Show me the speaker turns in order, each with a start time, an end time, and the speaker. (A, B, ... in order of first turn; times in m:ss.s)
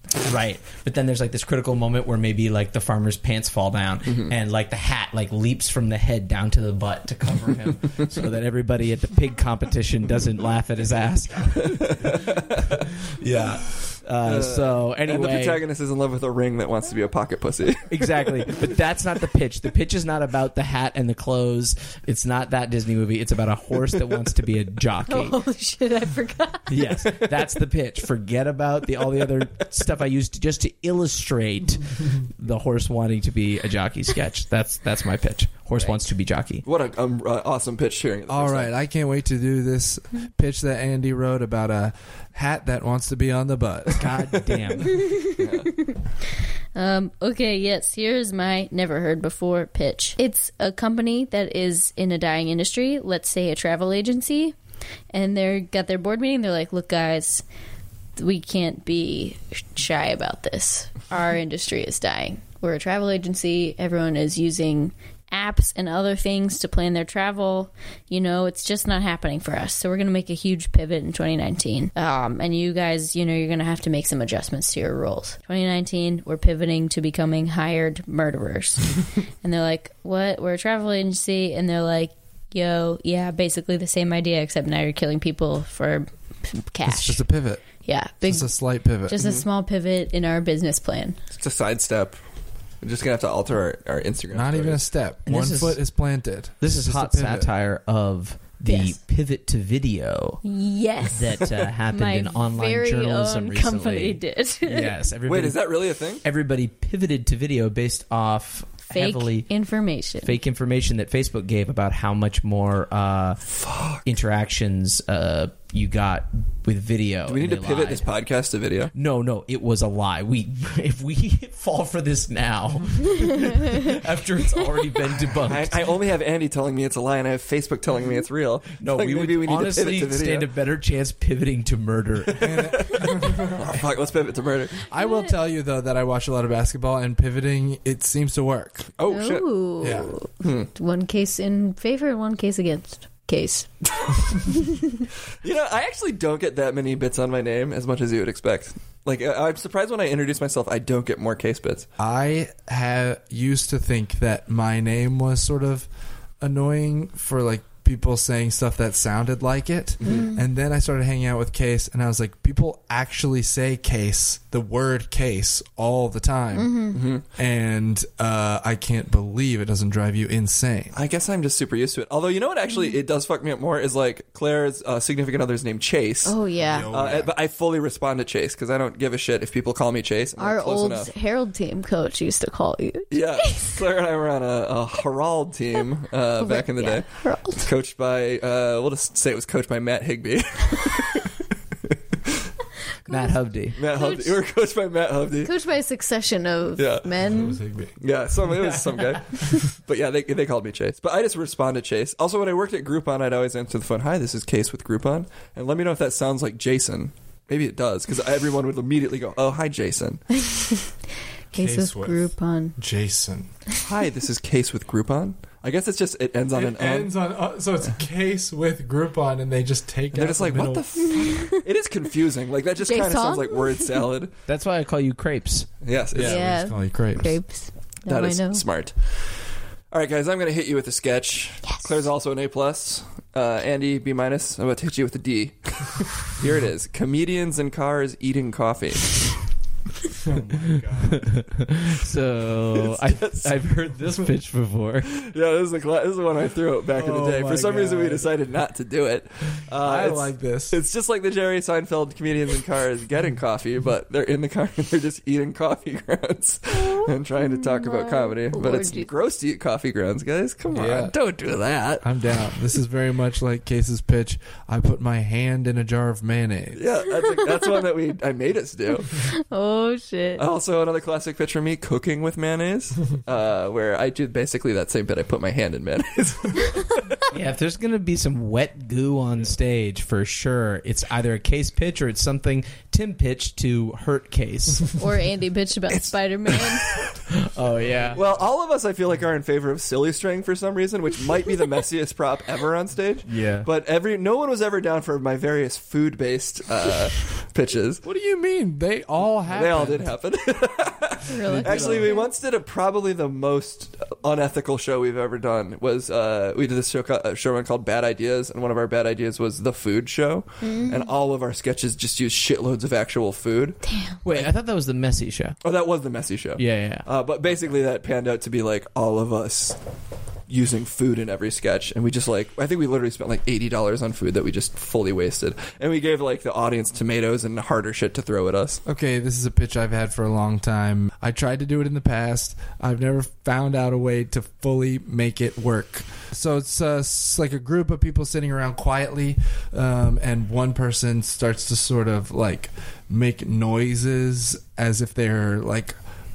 0:00.2-0:12.2 A
0:04.1-0:04.3 B
0:11.6-0:12.8 B
0:13.2-0:15.6 A
0:14.2-0:18.4 B
0:17.9-0:25.4 A
0:25.1-0:26.7 C
0:26.7-0:36.6 A
0:36.6-0:38.7 B
0:38.3-0:44.1 D
0:44.0-0:45.0 A
0:44.9-0:46.0 C
0:45.3-0:45.7 B
0:46.8-0:54.6 C
0:55.1-0:57.4 C
0:58.2-1:27.3 C
1:26.8-1:27.7 D
1:27.8-1:31.2 C
1:28.2-1:29.2 D
1:29.2-1:29.4 B
1:31.4-1:32.2 B
1:32.8-1:34.8 B
1:34.3-1:37.5 D
1:35.3-1:35.8 A
1:36.6-1:40.4 A
1:38.7-1:39.0 C
1:40.4-1:45.0 C
1:41.1-1:49.5 A
1:45.3-1:46.2 B
1:48.9-1:50.4 C
1:50.2-1:53.5 A
1:53.5-1:54.0 B
1:54.0-1:58.1 A
1:57.3-1:58.9 B
1:58.9-2:05.8 A
2:05.4-2:10.5 B
2:08.8-2:12.7 A
2:12.4-2:14.8 B
2:12.4-2:13.8 D
2:14.9-2:18.9 D
2:15.0-2:15.3 C
2:19.0-2:19.6 B
2:19.1-2:23.7 C
2:19.8-2:20.1 D
2:20.4-2:20.7 B
2:25.4-2:31.9 B
2:32.0-2:35.9 D
2:36.4-2:51.0 D
2:40.0-2:40.3 B
2:40.1-2:40.4 C
2:46.5-2:47.0 C
2:46.9-2:47.2 B
2:50.9-3:01.1 B
2:56.2-2:56.9 C
2:56.6-2:57.3 D
3:00.4-3:03.8 C
3:03.1-3:11.4 B
3:06.4-3:07.7 C
3:13.1-3:13.8 A
3:13.1-3:14.4 C
3:13.8-3:15.5 B
3:15.4-3:17.6 C
3:16.8-3:17.1 B
3:17.2-3:18.0 D
3:18.0-3:30.2 B
3:30.5-3:30.8 C
3:31.5-3:32.8 C
3:31.5-3:33.5 D
3:33.8-3:37.1 B
3:36.5-3:40.9 D
3:40.1-3:44.3 B
3:41.1-3:41.5 C
3:42.8-3:44.1 C
3:44.5-3:45.7 A
3:45.8-3:46.4 B
3:46.1-3:47.4 D
3:46.2-3:48.6 C
3:48.1-3:59.4 B
3:51.7-3:51.9 C
4:00.2-4:01.5 D
4:01.2-4:05.1 A
4:02.8-4:03.7 B
4:05.3-4:22.1 B
4:06.9-4:08.3 D
4:09.7-4:10.8 D
4:16.7-4:19.1 C
4:20.7-4:21.1 D
4:22.0-4:26.8 D
4:26.8-4:29.2 B
4:27.4-4:27.7 C
4:28.9-4:30.4 C
4:30.4-4:37.0 B
4:37.3-4:44.9 A
4:45.0-4:47.1 C
4:47.4-4:48.2 A
4:47.9-4:48.2 D
4:48.2-4:58.0 B
4:53.3-4:53.7 A
4:58.0-5:00.1 D
4:59.5-5:14.5 B
5:01.3-5:02.3 C
5:01.4-5:02.1 A
5:10.6-5:11.1 C
5:13.8-5:14.2 C
5:14.2-5:15.6 A
5:15.6-5:19.8 B
5:16.6-5:17.1 A
5:20.5-5:28.8 B
5:28.8-5:46.0 D